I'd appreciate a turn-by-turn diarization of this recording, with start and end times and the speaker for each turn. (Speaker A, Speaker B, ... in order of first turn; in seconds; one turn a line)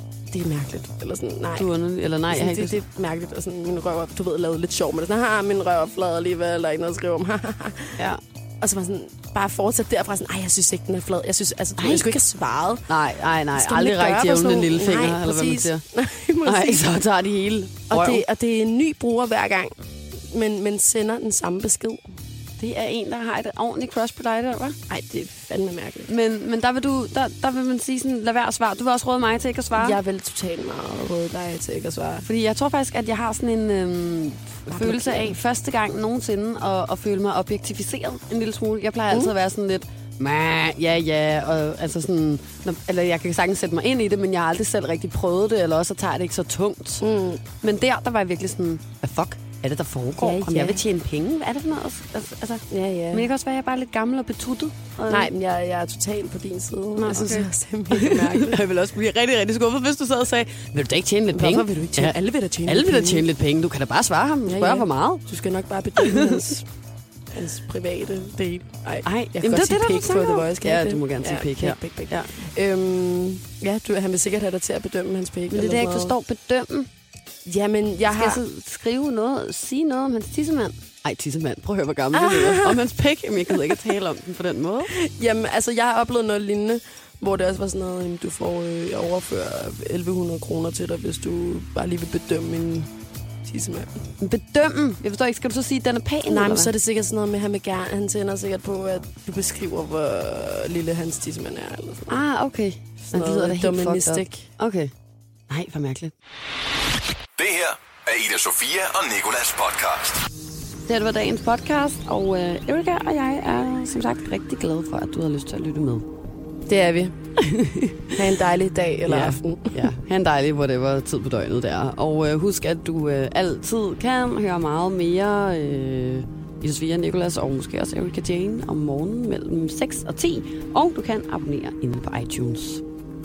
Speaker A: 0.3-1.7
Speaker B: 1.6-2.8
Speaker A: 2.3-8.0
Speaker A: 8.6-12.8
Speaker B: 11.8-12.2
Speaker B: 12.9-15.8
Speaker A: 13.5-16.9
Speaker B: 16.4-18.2
Speaker A: 17.9-19.8
Speaker A: 20.3-22.1
Speaker B: 22.6-24.8
Speaker A: 24.9-26.1
Speaker B: 26.1-30.0
Speaker A: 29.7-32.2
Speaker B: 32.2-47.0
Speaker A: 34.7-35.4
Speaker A: 47.0-47.4
Speaker B: 47.6-55.3
Speaker A: 50.2-50.8
Speaker A: 52.7-53.3
Speaker A: 55.1-58.6
Speaker B: 57.0-65.3
Speaker A: 61.3-63.3
Speaker A: 64.5-66.7
Speaker B: 66.0-66.4
Speaker A: 67.3-76.2
Speaker B: 69.0-72.4
Speaker B: 75.5-76.9
Speaker A: 77.5-78.4
Speaker B: 78.1-84.9
Speaker A: 82.1-82.8
Speaker A: 84.9-92.9
Speaker A: 93.5-93.9
Speaker B: 94.2-96.7
Speaker A: 96.3-102.2
Speaker B: 102.1-104.9
Speaker A: 103.1-104.5
Speaker B: 105.5-106.1
Speaker C: 107.4-110.2
Speaker B: 110.9-116.1
Speaker A: 116.7-117.1
Speaker B: 117.4-118.1
Speaker A: 118.2-119.9
Speaker B: 119.1-132.8